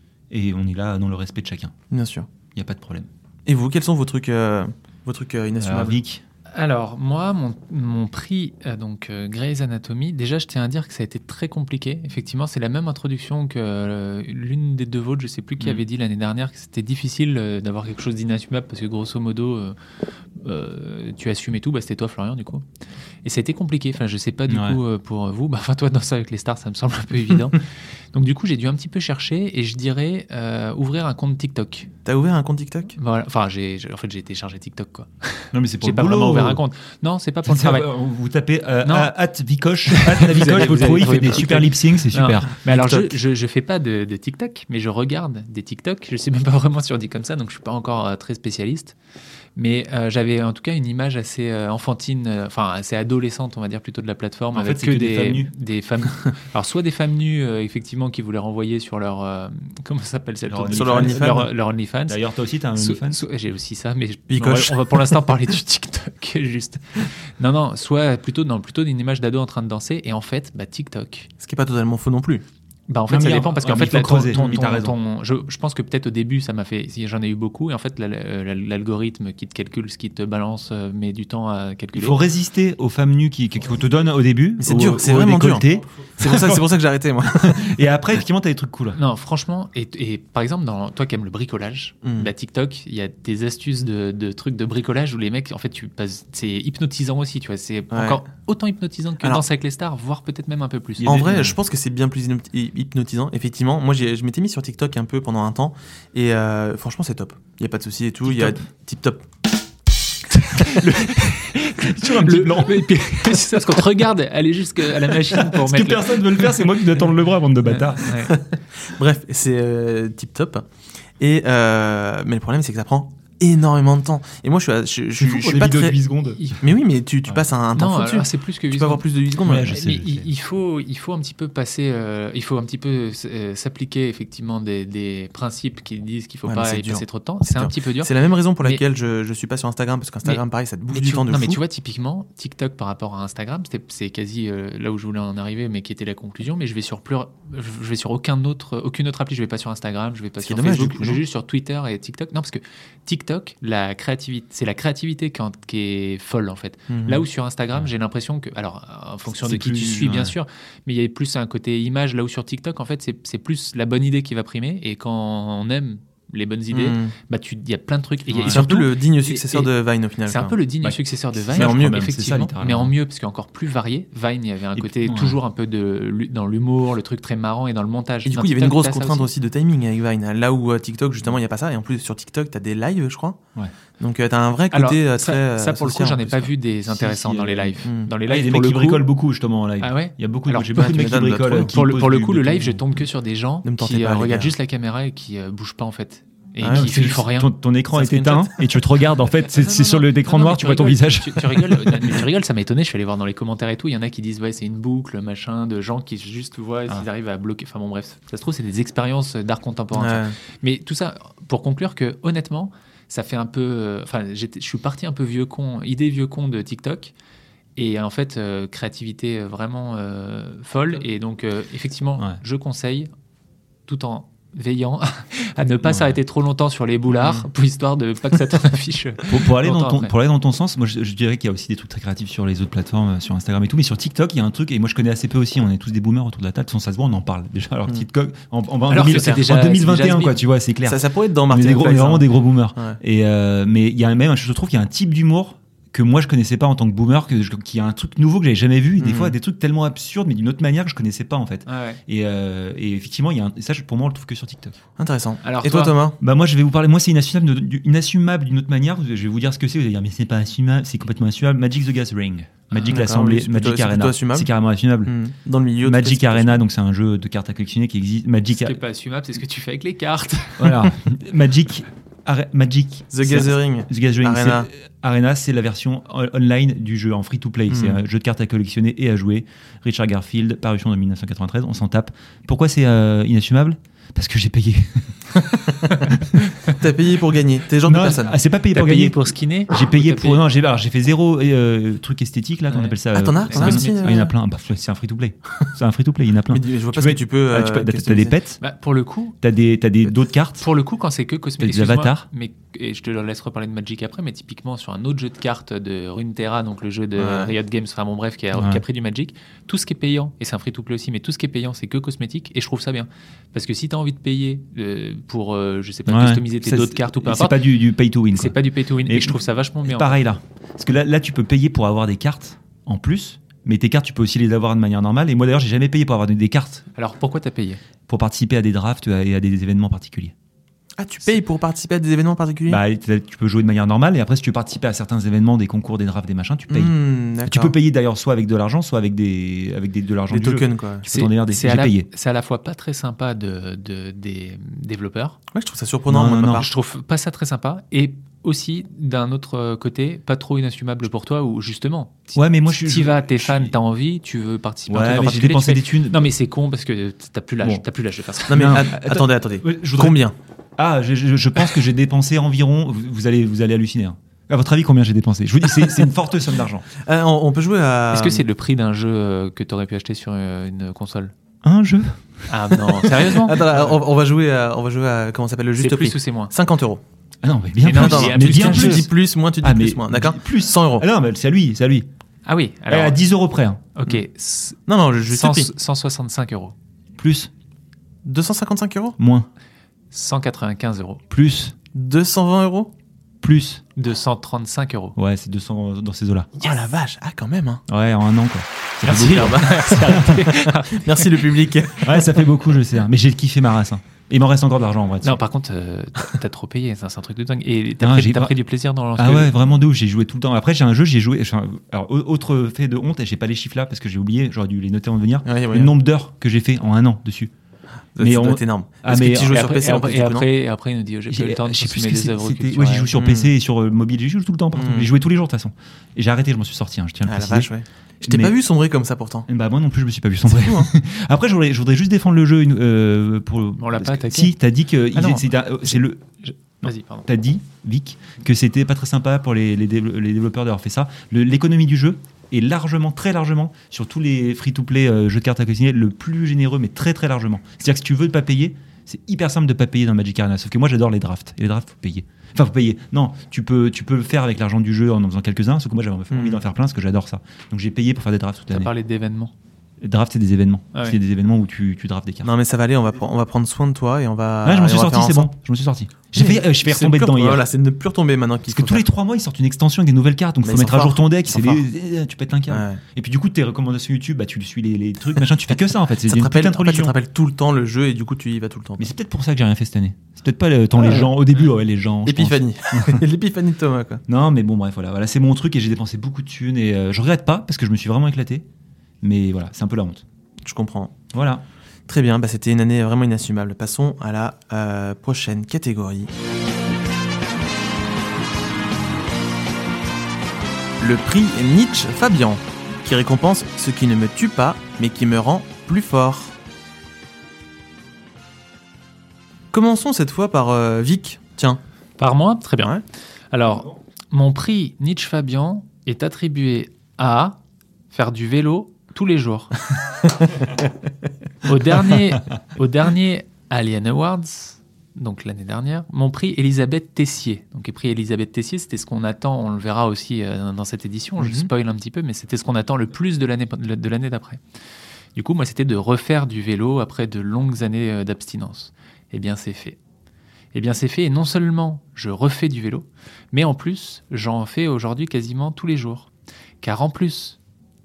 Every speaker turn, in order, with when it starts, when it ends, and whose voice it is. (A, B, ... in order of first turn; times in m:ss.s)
0:00.3-0:01.7 A
0:01.9-0:02.3 B
0:02.5-0:03.1 A
0:03.4-0:06.0 B
0:05.6-0:06.2 A
0:06.5-0:19.8 C
0:20.4-0:22.6 C
0:23.2-0:27.6 C
0:24.5-0:24.8 A
0:28.1-0:31.9 C
0:32.0-0:33.0 B
0:33.0-0:37.9 C
0:35.5-0:36.6 A
0:37.4-0:42.5 A
0:38.8-0:39.1 C
0:39.9-0:48.9 C
0:42.7-0:43.1 B
0:49.6-1:02.2 C
0:54.5-0:55.5 A
1:00.5-1:01.4 A
1:00.7-1:01.5 B
1:02.1-1:03.2 A
1:02.8-1:11.3 C
1:04.3-1:05.2 B
1:11.4-1:12.4 B
1:12.9-1:22.2 C
1:13.1-1:14.9 A
1:21.9-1:26.6 A
1:24.6-1:27.7 B
1:27.2-1:29.0 A
1:28.9-1:41.3 C
1:32.0-1:32.3 B
1:37.9-1:38.2 B
1:41.0-1:41.6 A
1:41.0-1:49.2 B
1:48.2-1:48.6 A
1:50.6-1:56.6 C
1:50.6-1:53.8 A
1:55.0-1:58.2 A
1:57.6-1:58.4 C
1:58.3-2:00.6 B
2:01.2-2:09.7 B
2:05.2-2:06.5 A
2:07.7-2:09.0 C
2:09.4-2:10.3 A
2:09.6-2:18.8 C
2:16.5-2:21.6 B
2:20.2-2:49.7 C
2:30.4-2:31.2 B
2:36.9-2:37.2 B
2:39.4-2:40.3 A
2:46.7-2:47.1 B
2:48.3-2:48.8 A
2:48.4-2:50.6 B
2:50.3-2:59.3 C
2:50.8-2:52.9 A
2:51.5-2:52.0 B
2:54.8-2:55.4 A
2:58.2-3:03.4 B
3:04.0-3:06.5 B
3:04.7-3:09.1 C
3:06.9-3:07.7 A
3:07.8-3:08.1 B
3:08.2-3:12.8 A
3:09.8-3:17.5 C
3:10.7-3:11.7 B
3:13.6-3:14.5 B
3:16.6-3:16.9 B
3:16.7-3:22.2 A
3:17.9-3:18.7 B
3:19.4-3:37.1 C
3:29.9-3:30.3 B
3:37.8-3:43.1 C
3:43.9-3:50.1 C
3:45.8-3:46.2 A
3:49.3-4:14.8 A
3:58.9-4:00.4 C
4:00.8-4:03.0 B
4:09.0-4:09.4 B
4:11.6-4:12.0 C
4:15.0-4:16.2 B
4:15.4-4:15.9 C
4:16.2-4:25.1 A
4:22.7-4:23.0 C
4:22.8-4:24.5 B
4:25.0-4:26.6 B
4:25.8-4:28.8 A
4:28.5-4:30.9 C
4:30.6-4:46.4 A
4:33.1-4:34.7 B
4:37.7-4:38.0 B
4:46.6-4:48.4 B
4:47.8-4:58.6 A
4:48.7-4:50.4 C
4:52.7-4:54.3 C
4:53.1-4:54.3 B
4:56.5-4:58.4 B
4:58.6-4:59.4 C
4:59.4-5:00.7 A
5:00.6-5:17.6 C
5:01.6-5:02.2 A
5:07.2-5:07.5 B
5:08.5-5:08.8 A
5:16.1-5:26.8 A
5:18.3-5:20.2 C
5:26.9-5:27.8 C
5:28.1-5:30.3 A
5:31.0-5:32.8 B
5:32.7-5:36.9 A
5:36.7-5:37.7 B
5:37.4-5:42.1 A
5:40.3-5:41.0 B
5:41.0-5:45.4 C
5:45.5-5:46.7 B
5:46.1-5:46.7 A
5:46.5-5:58.8 C
5:52.3-5:53.7 A
5:54.9-5:56.3 A
5:58.5-6:00.2 A
5:58.5-6:00.3 B
6:00.8-6:06.9 A
6:07.0-6:08.4 B
6:08.1-6:11.3 C
6:11.6-6:13.1 A
6:12.5-6:13.6 C
6:13.3-6:17.0 B
6:13.6-6:13.9 A
6:15.8-6:16.5 C
6:17.4-6:19.1 A
6:17.8-6:19.1 C
6:17.9-6:21.0 B
6:19.6-6:22.1 A
6:22.4-6:23.2 C
6:22.9-6:23.8 A
6:23.9-6:26.7 C
6:24.9-6:25.7 B
6:27.2-6:27.5 A
6:28.2-6:29.2 B
6:29.2-6:29.5 A
6:30.1-6:31.2 C
6:31.3-6:31.7 A
6:31.9-6:32.9 B
6:33.4-6:33.8 A
6:34.0-6:35.2 C
6:35.2-6:36.5 A
6:36.6-6:37.8 B
6:37.9-6:40.4 A
6:39.0-6:41.5 C
6:39.1-6:42.5 B
6:42.0-6:45.4 A
6:45.2-6:49.6 C
6:48.0-6:48.5 A
6:49.2-6:57.5 A
6:55.4-6:55.9 B
6:58.2-7:00.5 B
6:58.2-6:59.6 A
6:59.5-7:03.1 C
7:01.3-7:07.7 A
7:03.1-7:03.5 B
7:04.7-7:05.1 B
7:07.2-7:09.5 B
7:08.2-7:08.5 A
7:09.5-7:16.2 A
7:10.4-7:10.9 B
7:13.8-7:14.5 C
7:15.2-7:15.4 C
7:16.4-7:17.3 C
7:16.8-7:38.9 A
7:36.3-7:36.6 B
7:38.7-7:39.5 C
7:40.0-7:42.5 A
7:42.4-7:45.5 B
7:44.6-7:47.6 A
7:46.3-7:49.0 B
7:48.7-7:57.1 A
7:50.6-7:51.8 B
7:52.7-7:53.0 B
7:56.2-7:59.1 B
7:59.0-8:03.2 A
8:01.0-8:01.3 B
8:02.2-8:04.2 B
8:04.3-8:08.6 A
8:09.2-8:10.2 A
8:10.6-8:11.2 B
8:11.3-8:11.6 A
8:12.1-8:16.3 B
8:21.0-8:26.5 B
8:29.7-8:31.8 B
8:32.2-8:32.9 C
8:33.5-8:37.6 C
8:38.1-8:39.7 C
8:41.6-8:54.6 C
8:51.4-8:51.7 B
8:55.4-9:00.0 C
9:00.7-9:06.3 C
9:06.8-9:07.6 C